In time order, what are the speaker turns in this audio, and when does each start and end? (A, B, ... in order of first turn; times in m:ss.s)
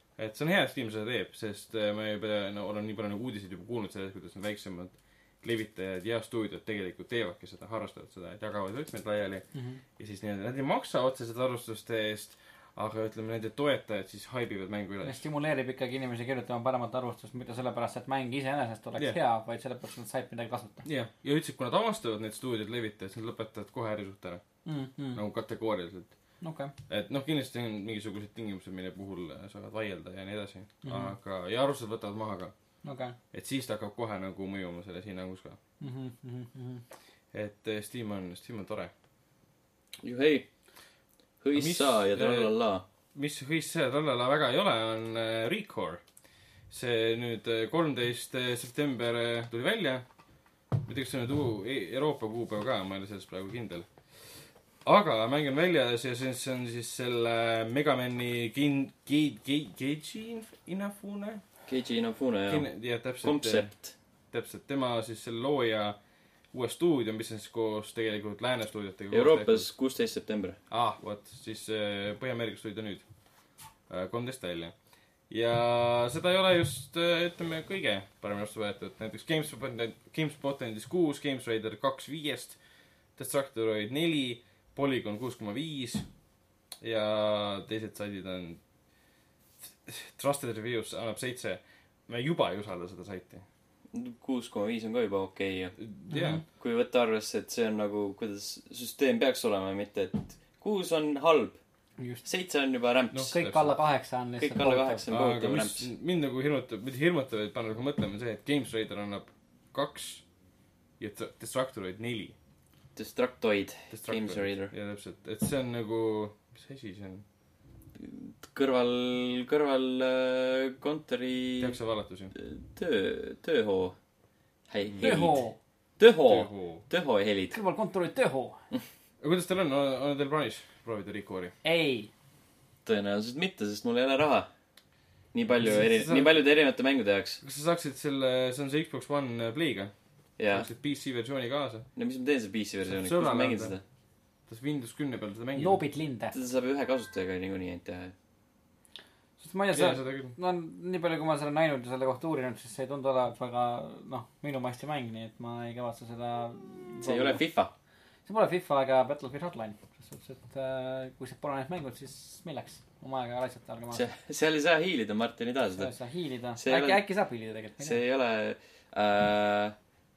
0:00.2-0:09.4 A
0:09.5-0:09.8 B
0:10.0-0:15.2 A
0:15.0-0:20.8 B
0:20.8-0:24.4 A
0:24.6-0:25.2 B
0:25.1-0:26.1 A
0:26.4-0:26.7 B
0:26.9-0:32.5 A
0:30.8-0:31.1 B
0:32.8-0:33.2 B
0:33.3-0:35.6 A
0:35.8-0:36.8 B
0:37.3-0:38.9 A
0:40.0-0:40.4 C
0:41.4-0:42.8 C
0:41.5-0:42.5 A
0:43.1-0:46.0 A
0:46.7-0:50.0 A
0:50.8-0:53.8 A
0:54.8-1:01.4 A
1:01.7-1:02.7 C
1:02.5-1:03.7 A
1:03.2-1:03.9 C
1:04.3-1:06.0 A
1:06.5-1:09.7 A
1:09.1-1:10.6 C
1:10.7-1:13.0 A
1:13.9-1:14.7 A
1:15.3-1:22.6 A
1:23.2-1:26.0 A
1:26.8-1:28.6 A
1:29.6-1:33.4 A
1:33.9-1:35.8 C
1:35.8-1:36.4 A
1:36.1-1:36.4 B
1:36.6-1:41.6 C
1:42.2-1:43.3 C
1:43.1-1:43.7 A
1:43.3-1:45.0 B
1:44.4-1:45.9 C
1:45.1-1:50.2 A
1:51.0-1:52.4 A
1:53.0-1:54.7 C
1:53.9-1:57.2 A
1:58.0-2:01.8 C
2:01.6-2:02.3 A
2:02.3-2:04.0 C
2:04.7-2:05.4 C
2:04.9-2:05.2 A
2:05.0-2:05.6 B
2:06.0-2:07.6 C
2:06.3-2:06.8 A
2:07.5-2:08.6 B
2:09.2-2:11.5 A
2:11.6-2:12.1 B
2:12.8-2:14.5 C
2:15.3-2:17.4 C
2:15.6-2:16.4 A
2:17.4-2:19.9 A
2:20.4-2:20.7 C
2:20.5-2:21.8 A
2:22.0-2:23.8 C
2:22.9-2:23.7 A
2:24.5-2:25.8 A
2:25.6-2:26.3 B
2:26.3-2:28.1 C
2:29.4-2:37.4 B
2:29.7-2:30.3 A
2:37.0-2:37.7 C
2:38.3-2:44.0 B
2:43.9-2:45.9 C
2:45.8-2:48.0 B
2:46.6-2:47.0 C
2:47.8-2:49.7 C